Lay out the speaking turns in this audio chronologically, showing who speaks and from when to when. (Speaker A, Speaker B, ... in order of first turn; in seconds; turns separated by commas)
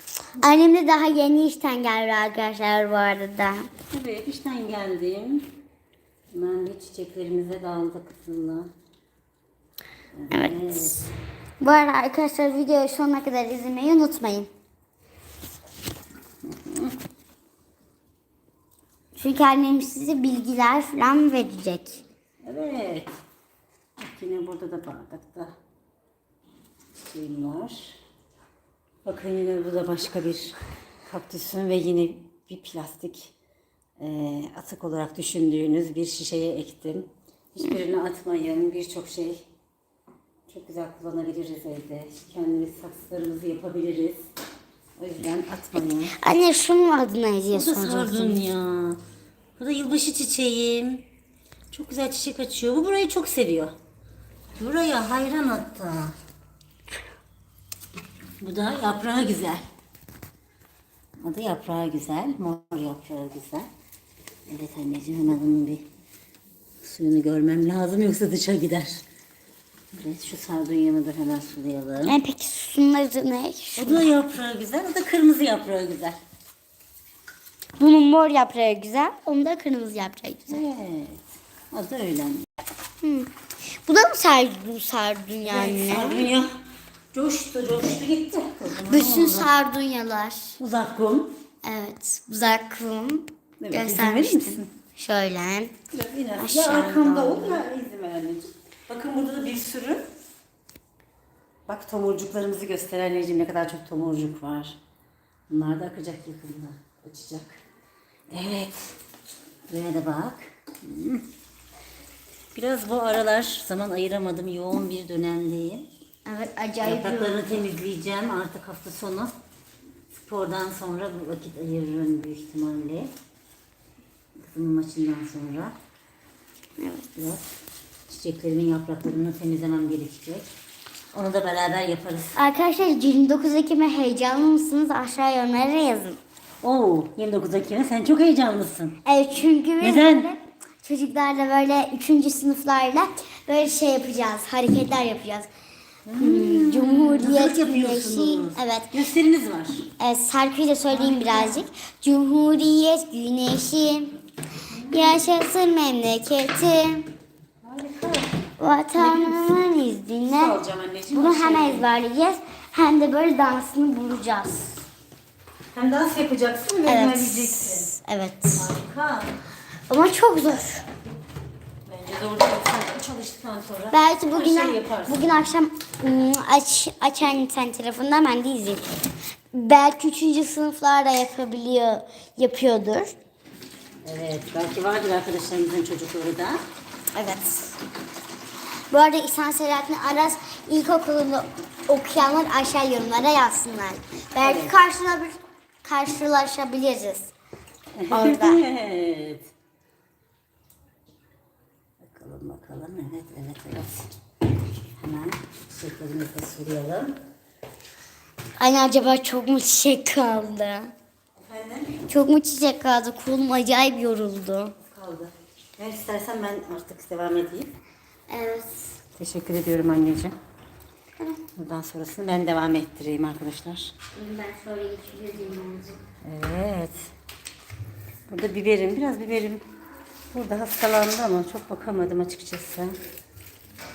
Speaker A: 0.4-3.7, Speaker B: 3.9-5.5, Speaker B: 6.3-8.7, Speaker B: 10.1-11.0, Speaker A: 10.3-11.1, Speaker A: 11.6-14.5, Speaker B: 16.4-16.9, Speaker A: 19.1-22.0, Speaker B: 22.4-23.1, Speaker B: 24.0-25.5, Speaker B: 27.0-28.0, Speaker B: 29.0-30.6, Speaker B: 31.1-33.3, Speaker B: 34.0-39.4, Speaker B: 40.5-44.3, Speaker B: 45.0-46.1, Speaker A: 45.8-48.4, Speaker B: 47.5-49.0, Speaker B: 49.5-51.0, Speaker B: 51.7-53.7, Speaker B: 54.5-56.1, Speaker B: 58.4-59.6, Speaker B: 61.2-63.7, Speaker B: 64.5-65.8, Speaker B: 66.8-69.0, Speaker B: 69.9-72.2, Speaker A: 72.0-74.1, Speaker B: 73.8-76.2, Speaker A: 77.8-80.6, Speaker B: 80.5-82.5, Speaker A: 83.0-86.3, Speaker B: 85.5-86.6, Speaker B: 87.1-89.5, Speaker A: 88.9-90.6, Speaker B: 90.6-91.3, Speaker A: 91.6-95.7, Speaker B: 93.6-94.7, Speaker B: 95.9-100.0, Speaker A: 96.4-97.6, Speaker B: 101.7-104.8, Speaker B: 105.5-107.6, Speaker B: 108.3-109.0, Speaker B: 109.7-111.2, Speaker B: 112.5-115.9, Speaker A: 116.2-117.4, Speaker B: 116.8-119.3, Speaker B: 120.1-123.1, Speaker B: 124.4-125.7, Speaker A: 126.8-127.2, Speaker B: 127.2-127.5, Speaker B: 128.1-130.5, Speaker B: 131.1-132.4, Speaker A: 132.3-136.2, Speaker B: 136.6-139.0, Speaker A: 139.0-145.5, Speaker B: 139.8-140.3, Speaker B: 146.1-149.9, Speaker A: 146.2-148.9, Speaker A: 150.0-154.2, Speaker B: 150.9-151.6, Speaker B: 154.7-155.2, Speaker A: 154.9-157.1, Speaker B: 157.6-158.4, Speaker A: 158.6-160.6, Speaker B: 158.9-159.6, Speaker B: 160.2-161.9, Speaker A: 161.1-164.8, Speaker B: 165.7-168.0, Speaker A: 166.8-168.6, Speaker B: 168.6-169.3, Speaker A: 169.9-170.8, Speaker B: 171.9-175.3, Speaker A: 173.9-183.1, Speaker B: 184.0-186.6, Speaker A: 187.1-187.8, Speaker A: 188.9-197.3, Speaker B: 194.4-194.7, Speaker B: 197.9-199.5, Speaker A: 198.1-198.6, Speaker B: 202.0-204.1, Speaker B: 205.0-207.2, Speaker A: 208.6-210.9, Speaker B: 211.4-212.1, Speaker A: 212.1-214.7, Speaker B: 214.8-217.7, Speaker A: 218.3-219.0, Speaker B: 219.1-220.3, Speaker B: 221.5-223.9, Speaker A: 224.1-226.0, Speaker B: 226.2-227.1, Speaker B: 228.3-229.6, Speaker B: 230.3-233.0